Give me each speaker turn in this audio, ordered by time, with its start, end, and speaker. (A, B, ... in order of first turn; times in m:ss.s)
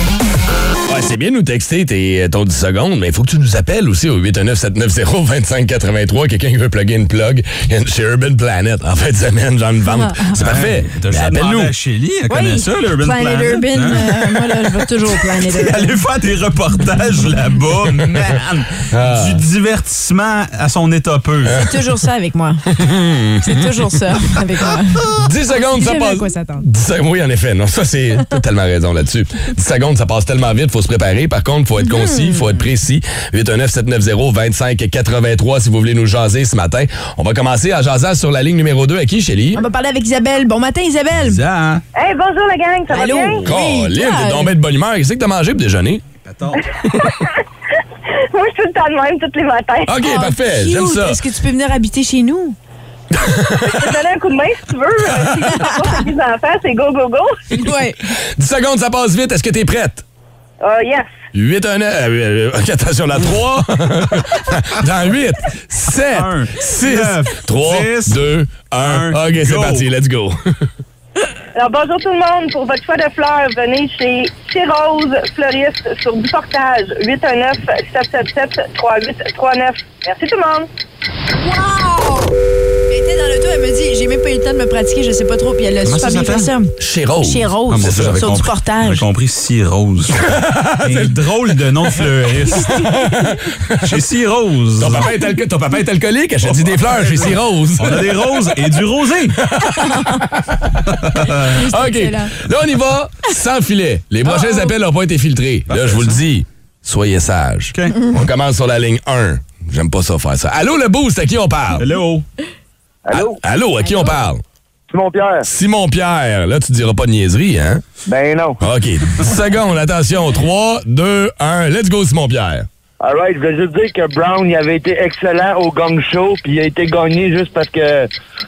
0:00.9-0:11.7 A
0:09.9-0:10.3 B
0:10.3-0:21.6 C
0:12.3-0:16.0 B
0:18.9-0:19.4 A
0:21.5-0:21.8 A
0:21.5-0:22.6 B
0:22.7-0:23.8 A
0:23.4-0:26.6 B
0:25.1-0:39.6 A
0:31.8-0:32.6 B
0:39.6-0:41.4 B
0:41.2-0:41.8 C
0:41.9-0:43.4 D
0:42.9-0:44.6 B
0:43.4-0:46.0 A
0:46.2-0:46.6 C
0:48.3-0:49.9 D
0:49.9-0:51.2 A
0:50.0-0:52.6 B
0:53.2-0:53.9 A
0:53.6-0:57.4 D
0:57.6-0:58.0 B
0:58.4-1:00.0 A
1:00.6-1:01.1 D
1:01.3-1:10.4 A
1:06.1-1:08.2 C
1:08.8-1:09.9 C
1:11.6-1:20.7 D
1:21.4-1:22.3 B
1:22.9-1:29.1 B
1:25.8-1:26.5 C
1:26.8-1:28.2 A
1:27.7-1:32.8 C
1:30.2-1:31.2 A
1:32.7-1:34.0 A
1:33.8-1:35.1 C
1:34.8-1:38.4 A
1:36.4-1:39.4 C
1:39.4-1:40.7 A
1:39.8-1:40.2 B
1:40.9-1:41.6 C
1:41.5-1:42.3 B
1:41.5-1:51.9 A
1:44.2-1:44.7 B
1:45.7-1:46.2 C
1:47.7-1:48.0 C
1:51.8-1:52.2 C
1:53.1-1:53.4 E
1:53.1-1:54.4 A
1:53.8-1:54.2 B
1:54.9-1:55.5 E
1:55.4-1:57.8 A
1:58.1-1:58.6 E
1:58.6-2:02.7 A
2:03.0-2:08.1 E